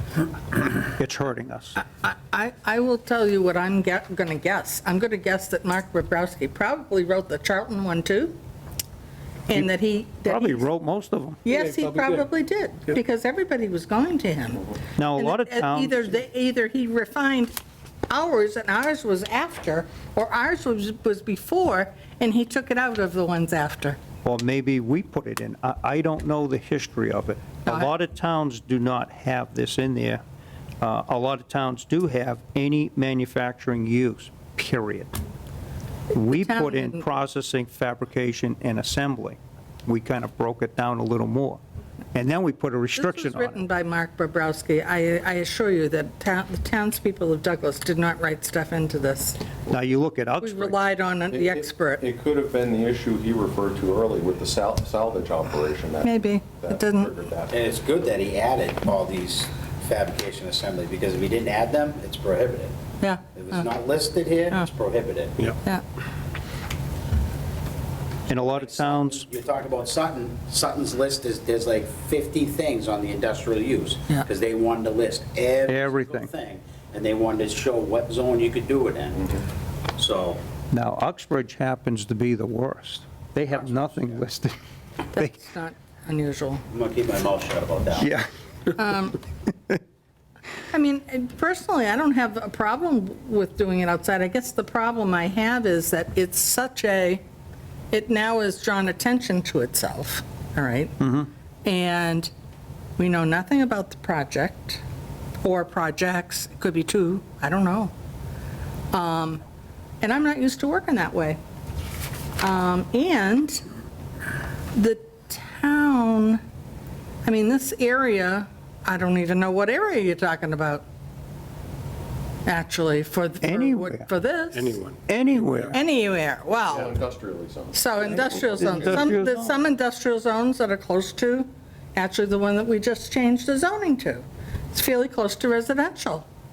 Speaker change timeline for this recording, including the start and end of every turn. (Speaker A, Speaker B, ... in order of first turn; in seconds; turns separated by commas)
Speaker A: 0.6-1.8, Speaker B: 1.8-8.4, Speaker B: 9.5-10.7, Speaker A: 10.2-11.4, Speaker B: 11.4-17.6, Speaker A: 15.0-16.1, Speaker B: 18.1-24.0, Speaker A: 24.2-30.2, Speaker A: 30.8-35.2, Speaker A: 36.1-41.6, Speaker B: 36.3-37.0, Speaker A: 42.1-43.6, Speaker B: 43.0-49.5, Speaker A: 49.7-50.8, Speaker B: 50.4-52.0, Speaker C: 51.3-57.6, Speaker B: 56.0-57.1, Speaker D: 57.5-62.8, Speaker B: 63.0-63.7, Speaker D: 63.4-65.5, Speaker A: 68.3-69.3, Speaker D: 68.5-79.4, Speaker A: 75.7-76.3, Speaker D: 80.0-80.4, Speaker A: 80.7-84.5, Speaker D: 83.7-84.1, Speaker B: 85.1-86.6, Speaker D: 86.7-88.1, Speaker A: 88.0-88.3, Speaker B: 88.8-89.2, Speaker B: 90.7-97.2, Speaker B: 97.9-101.0, Speaker A: 101.0-101.3, Speaker B: 101.7-102.3, Speaker B: 103.0-104.8, Speaker B: 105.4-107.9, Speaker B: 108.9-109.4, Speaker B: 110.0-111.4, Speaker B: 112.4-113.6, Speaker B: 114.7-116.4, Speaker B: 117.2-120.9, Speaker B: 122.5-124.8, Speaker A: 123.4-124.1, Speaker A: 125.1-125.8, Speaker B: 125.7-126.9, Speaker C: 126.7-129.1, Speaker B: 127.7-136.3, Speaker A: 128.6-129.5